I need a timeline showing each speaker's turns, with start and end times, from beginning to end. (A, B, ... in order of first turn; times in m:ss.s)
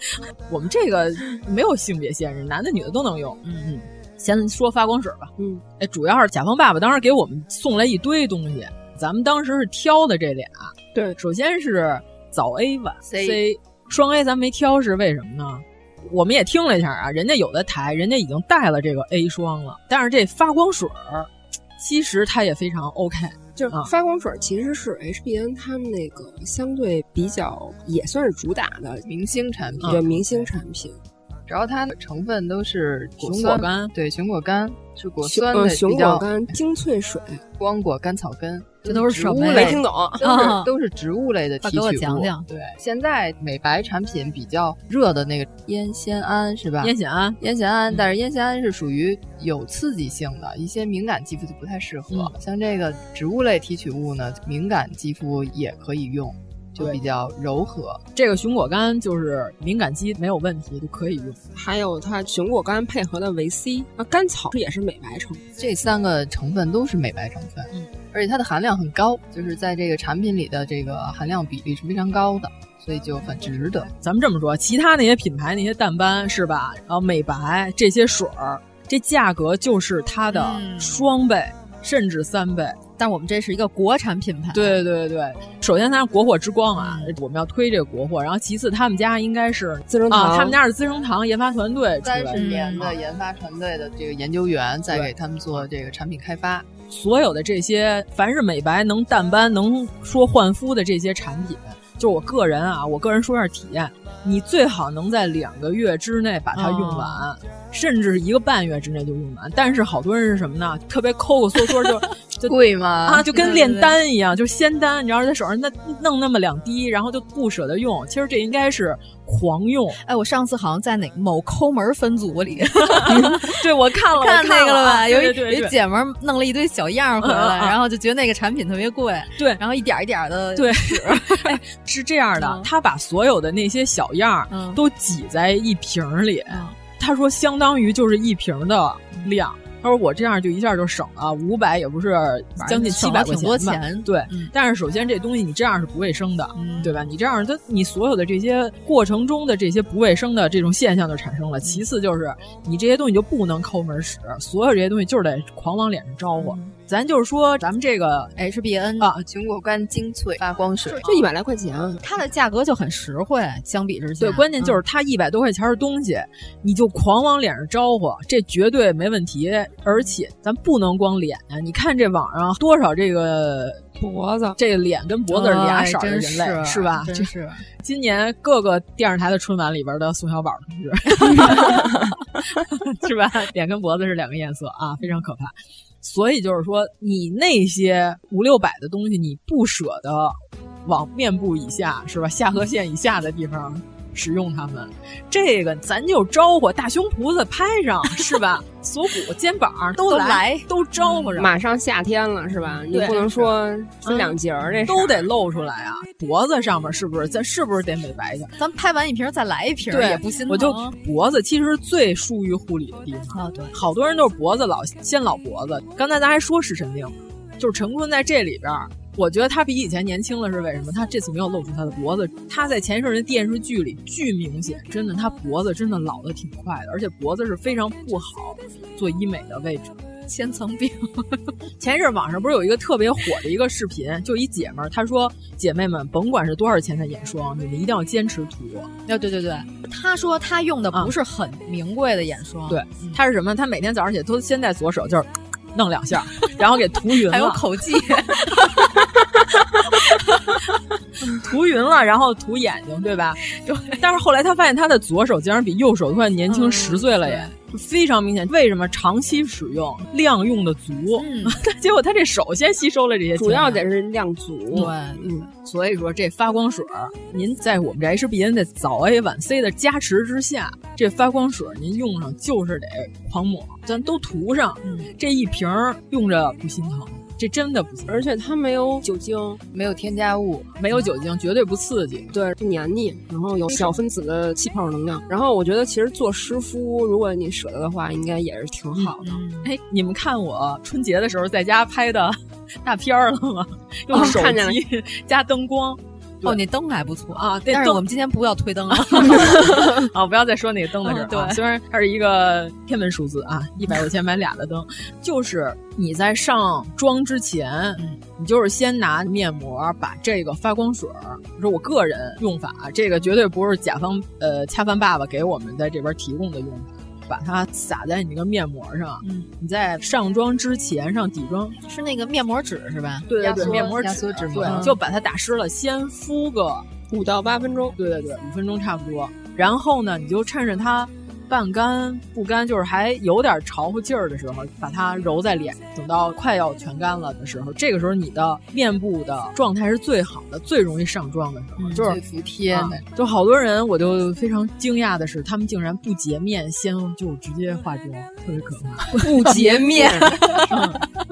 0:00.1-0:23.9 A
0:05.4-0:05.6 B
0:13.0-0:13.4 C
0:23.6-0:29.1 B
0:29.0-0:30.5 C
0:29.8-0:31.0 B
0:29.8-0:30.2 A
0:31.5-0:36.3 C
0:33.2-0:33.9 A
0:35.2-0:37.4 B
0:37.6-0:58.0 C
0:38.8-0:40.7 D
0:39.5-0:40.2 B
0:41.6-0:42.4 D
0:46.8-0:47.4 A
0:58.1-1:01.4 A
1:01.5-1:05.4 B
1:05.6-1:13.9 C
1:14.0-1:22.8 A
1:20.3-1:21.0 D
1:23.0-1:24.8 D
1:24.5-1:32.9 A
1:26.8-1:27.1 D
1:29.9-1:30.6 B
1:32.0-1:36.7 C
1:32.3-1:32.9 D
1:34.9-1:35.7 A
1:36.9-2:00.0 A
1:46.5-1:47.3 D
1:52.4-1:53.4 C
1:53.3-1:54.0 D
2:00.0-2:03.6 D
2:02.8-2:05.7 A
2:04.1-2:11.6 D
2:07.2-2:07.8 A
2:10.6-2:38.3 A
2:12.4-2:12.7 D
2:14.5-2:14.8 D
2:16.5-2:16.8 D
2:22.6-2:24.5 D
2:26.5-2:27.0 D
2:36.4-2:36.7 D
2:38.4-2:39.1 D
2:39.0-2:39.2 A
2:39.2-2:41.0 C
2:41.0-2:42.1 B
2:42.0-2:44.8 D
2:44.2-2:53.8 A
2:54.0-2:54.6 B
2:54.6-3:01.9 A
2:55.3-2:57.6 D
3:02.5-3:21.5 A
3:20.0-3:21.4 D
3:21.4-3:25.3 B
3:22.5-3:22.8 D
3:22.9-3:23.5 A
3:24.0-3:28.5 A
3:28.6-3:30.9 D
3:29.9-3:50.0 A
3:33.3-3:33.8 D
3:50.3-3:51.5 D
3:51.8-3:58.9 A
3:59.0-4:03.2 D
4:02.7-4:07.6 A
4:07.2-4:08.9 D
4:10.0-4:10.5 D
4:11.2-4:13.4 A
4:13.5-4:14.0 D
4:14.0-4:23.8 A
4:16.5-4:17.5 D
4:21.2-4:21.6 D
4:23.4-4:25.5 B
4:24.7-4:25.3 D
4:25.6-4:38.3 A
4:34.8-4:35.1 D
4:38.1-4:39.6 B
4:39.7-4:40.8 C
4:40.8-4:42.3 A
4:42.3-4:49.4 B
4:49.2-4:49.7 D
4:49.6-4:56.6 A
4:54.1-4:54.8 B
4:56.4-4:59.8 D
4:57.3-4:58.0 A
4:58.9-5:21.8 A
5:01.0-5:01.6 D
5:19.2-5:19.5 D
5:21.8-5:23.9 D
5:23.2-5:26.9 A
5:23.4-5:24.9 C
5:24.6-5:25.0 D
5:27.1-5:28.0 B
5:28.0-5:49.8 A
5:41.8-5:42.1 D
5:41.9-5:43.0 C
5:49.2-5:50.4 B
5:49.2-5:51.0 D
5:50.7-5:51.0 A